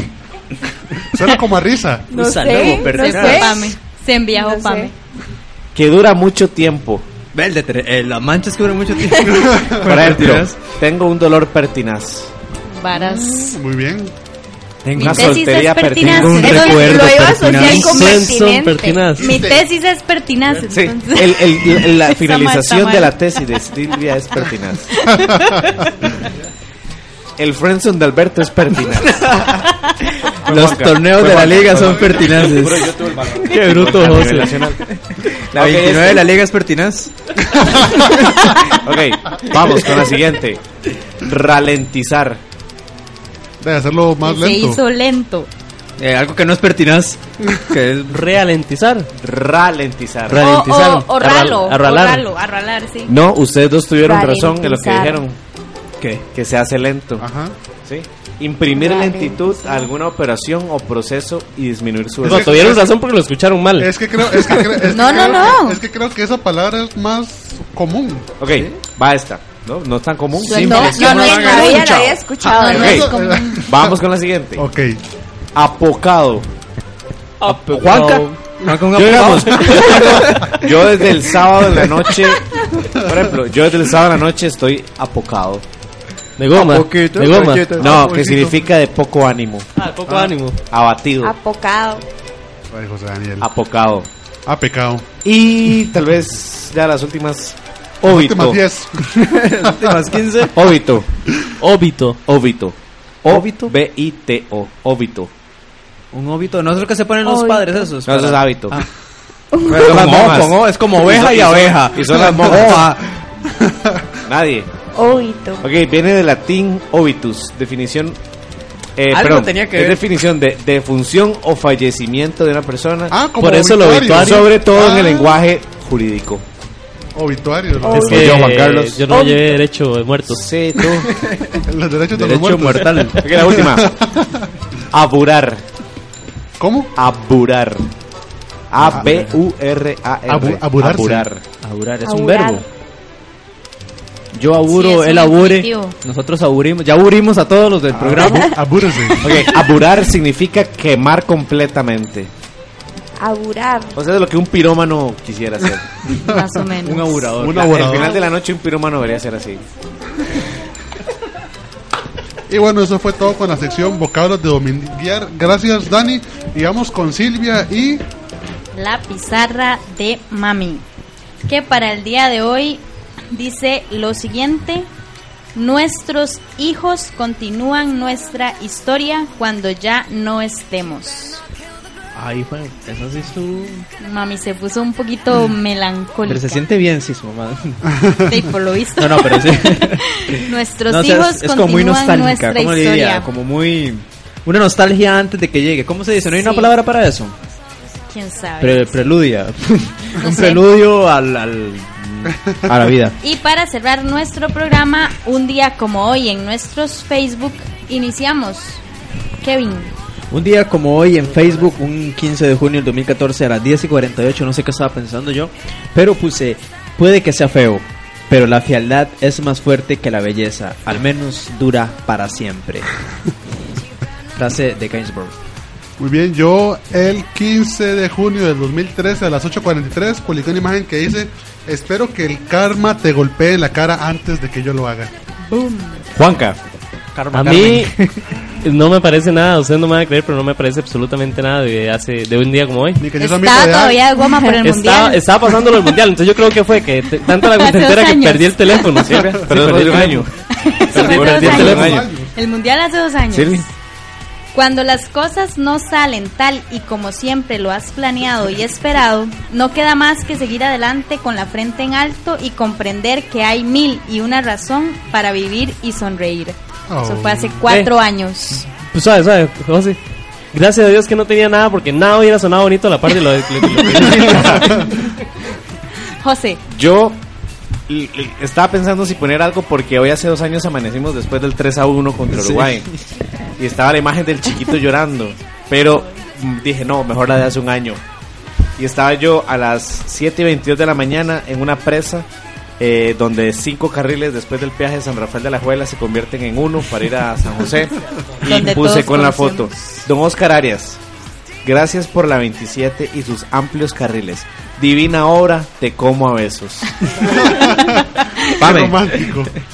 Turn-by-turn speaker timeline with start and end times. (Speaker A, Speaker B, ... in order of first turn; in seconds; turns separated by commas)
Speaker A: 1.1-2.2, Speaker B: 2.1-3.8, Speaker C: 2.1-3.6, Speaker D: 2.6-4.9, Speaker B: 4.3-4.9, Speaker E: 5.7-7.0, Speaker C: 7.3-10.6, Speaker A: 9.3-9.8, Speaker E: 9.8-12.3, Speaker D: 12.7-13.6, Speaker A: 13.3-14.1, Speaker C: 14.8-15.4, Speaker E: 14.9-17.2, Speaker D: 14.9-18.3, Speaker C: 16.0-18.1, Speaker B: 16.5-19.1, Speaker F: 17.8-19.3, Speaker A: 19.1-19.6, Speaker D: 19.2-23.1, Speaker E: 20.7-24.9, Speaker D: 25.0-25.5, Speaker A: 25.2-25.6, Speaker E: 27.4-29.2, Speaker C: 28.9-33.0, Speaker E: 30.4-34.8, Speaker F: 33.4-34.7, Speaker C: 34.9-37.1, Speaker E: 35.5-36.2, Speaker C: 37.7-38.6, Speaker A: 37.8-38.2, Speaker E: 38.8-40.6, Speaker C: 39.6-39.9, Speaker E: 41.2-42.4, Speaker A: 43.6-44.8, Speaker D: 44.2-45.5, Speaker C: 46.0-48.2, Speaker F: 48.1-49.1, Speaker E: 49.2-50.4, Speaker D: 50.3-53.1, Speaker F: 50.3-52.3, Speaker E: 53.1-55.4, Speaker B: 54.0-55.2, Speaker C: 56.0-56.2, Speaker E: 56.3-57.2, Speaker A: 57.2-57.5, Speaker E: 57.9-62.8, Speaker B: 58.7-59.9, Speaker A: 62.2-62.9, Speaker F: 62.2-63.9, Speaker A: 63.8-68.3, Speaker D: 64.9-65.8, Speaker E: 68.4-70.9, Speaker C: 68.5-68.8, Speaker C: 70.4-72.2, Speaker B: 70.4-73.1, Speaker D: 70.5-73.6, Speaker A: 72.4-74.0, Speaker E: 72.8-73.1, Speaker E: 73.6-74.6, Speaker A: 74.6-75.0, Speaker E: 75.5-76.5, Speaker F: 77.4-78.3, Speaker C: 77.4-82.1, Speaker E: 78.9-79.9, Speaker F: 79.5-80.1, Speaker E: 80.6-82.5, Speaker A: 82.8-83.3, Speaker E: 83.0-85.6, Speaker F: 86.4-87.8, Speaker C: 86.5-88.2, Speaker E: 87.8-89.7, Speaker A: 87.8-88.6, Speaker F: 89.8-90.6, Speaker A: 90.1-90.3, Speaker E: 90.7-91.3, Speaker B: 91.2-92.0, Speaker A: 92.7-93.5, Speaker E: 93.4-94.1, Speaker A: 94.5-95.0, Speaker E: 95.2-98.6, Speaker A: 98.0-100.2, Speaker C: 99.2-100.5, Speaker E: 100.5-101.1, Speaker F: 101.6-102.2, Speaker E: 102.2-102.7, Speaker C: 103.2-103.7, Speaker E: 103.3-105.3, Speaker C: 106.1-108.9, Speaker B: 107.2-107.9, Speaker E: 108.0-108.8, Speaker E: 109.7-113.0, Speaker C: 109.7-113.0, Speaker A: 112.1-112.8, Speaker A: 113.4-114.1, Speaker E: 114.3-114.7, Speaker B: 114.9-115.7, Speaker E: 115.6-118.2, Speaker E: 119.0-123.1, Speaker C: 119.1-120.0, Speaker A: 123.1-125.4, Speaker F: 123.4-124.5, Speaker E: 124.1-126.4, Speaker A: 127.1-128.4, Speaker F: 127.9-130.4, Speaker E: 128.1-129.0, Speaker E: 130.3-131.1, Speaker C: 131.1-131.6, Speaker A: 131.6-134.5, Speaker C: 132.1-133.5, Speaker E: 133.2-133.9, Speaker E: 134.9-135.6, Speaker A: 136.6-136.9, Speaker E: 136.9-137.8, Speaker E: 138.7-141.4, Speaker C: 138.8-139.4, Speaker A: 138.9-139.2, Speaker A: 140.3-141.3, Speaker C: 141.6-142.6, Speaker B: 142.1-142.6, Speaker C: 144.3-148.5, Speaker D: 144.7-145.9, Speaker A: 147.9-149.4, Speaker E: 149.2-152.3, Speaker B: 153.2-153.9, Speaker E: 153.9-155.8, Speaker D: 156.1-157.3, Speaker A: 156.2-156.6, Speaker C: 156.8-158.0, Speaker A: 157.3-158.2, Speaker E: 157.5-159.6, Speaker A: 162.5-168.0, Speaker D: 168.7-170.8, Speaker D: 171.4-174.9, Speaker D: 175.5-181.4, Speaker C: 182.1-183.9, Speaker D: 184.0-186.6, Speaker C: 186.2-187.8, Speaker A: 187.8-188.4, Speaker D: 188.3-193.3, Speaker C: 189.0-197.3, Speaker D: 196.3-196.7, Speaker D: 198.1-199.1, Speaker C: 198.6-203.2, Speaker D: 200.2-200.6, Speaker D: 203.2-208.8, Speaker D: 209.4-209.9, Speaker C: 210.3-222.9, Speaker C: 224.3-225.3, Speaker A: 226.0-235.1, Speaker D: 235.5-236.0, Speaker E: 236.1-236.6, Speaker C: 237.1-238.2, Speaker F: 237.3-237.9, Speaker F: 238.6-243.0, Speaker A: 243.0-244.0, Speaker D: 243.2-245.2, Speaker F: 244.6-250.3, Speaker D: 247.5-249.0, Speaker E: 249.0-250.3, Speaker D: 250.5-253.7, Speaker F: 250.9-252.0, Speaker A: 250.9-252.3, Speaker E: 251.0-252.1, Speaker E: 253.3-253.6, Speaker D: 254.5-268.6, Speaker A: 266.9-267.6, Speaker F: 268.8-270.0, Speaker F: 270.5-274.6, Speaker C: 273.8-274.6, Speaker D: 276.2-276.6, Speaker E: 276.7-277.1, Speaker E: 277.9-282.9, Speaker C: 282.3-282.9, Speaker E: 283.6-288.0, Speaker E: 288.8-292.2, Speaker E: 292.8-301.0, Speaker D: 298.4-300.0, Speaker E: 301.6-306.9, Speaker D: 307.2-308.4, Speaker A: 307.2-309.5, Speaker E: 308.6-309.0